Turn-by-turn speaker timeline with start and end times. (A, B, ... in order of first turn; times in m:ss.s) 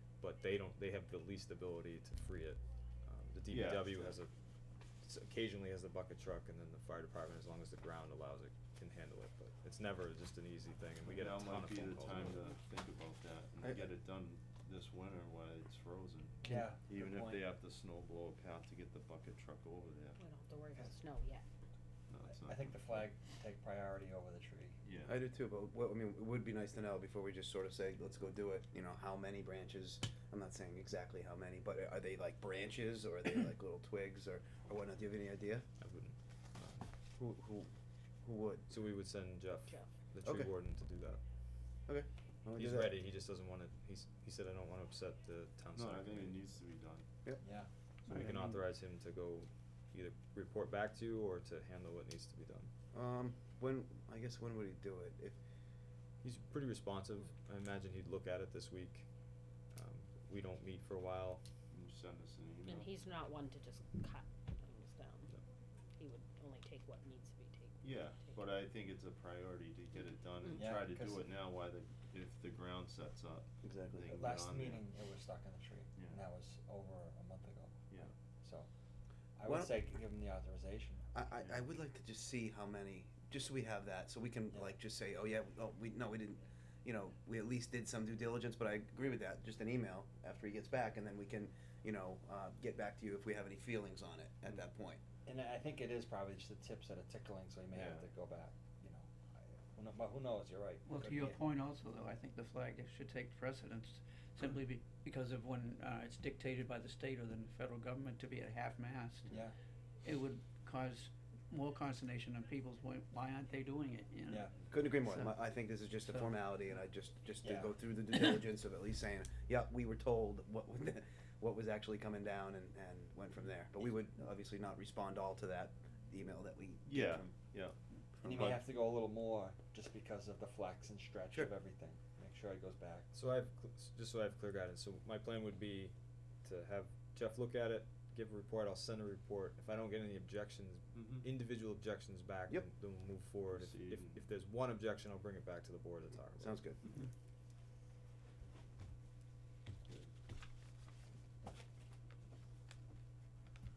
0:00.2-0:04.3 A
0:03.5-0:04.1 B
0:05.0-0:12.4 A
0:11.0-0:20.2 B
0:16.4-0:17.4 C
0:20.2-0:21.4 D
0:22.1-0:23.1 B
0:22.3-0:24.8 C
0:24.8-0:25.2 B
0:25.0-0:35.7 E
0:35.8-0:36.9 A
0:37.2-0:38.7 E
0:38.7-0:41.2 A
0:40.2-0:40.5 E
0:41.9-0:42.9 E
0:42.6-0:46.4 A
0:45.8-0:47.1 B
0:47.4-0:47.7 C
0:48.1-0:52.7 A
0:48.1-0:48.6 F
0:52.9-0:55.4 E
0:56.2-0:59.1 A
0:59.7-1:01.4 A
1:01.7-1:03.0 B
1:02.6-1:05.3 D
1:06.0-1:08.3 D
1:07.8-1:14.9 B
1:10.6-1:11.2 C
1:13.6-1:14.2 E
1:14.1-1:18.7 C
1:16.0-1:16.2 B
1:19.4-1:21.1 C
1:19.4-1:19.8 E
1:21.1-1:35.0 E
1:21.4-1:21.7 B
1:24.5-1:24.8 C
1:35.2-1:41.4 C
1:37.7-1:38.1 B
1:40.9-1:49.4 F
1:49.3-1:49.6 C
1:50.0-1:54.5 F
1:54.3-1:54.6 C
1:54.7-2:07.4 E
1:55.0-1:55.3 F
1:56.0-1:56.4 F
1:57.4-1:57.7 C
2:06.9-2:08.6 B
2:08.2-2:08.6 E
2:08.2-2:13.1 C
2:13.1-2:26.6 A
2:20.9-2:21.3 B
2:23.5-2:24.2 B
2:26.4-2:26.8 E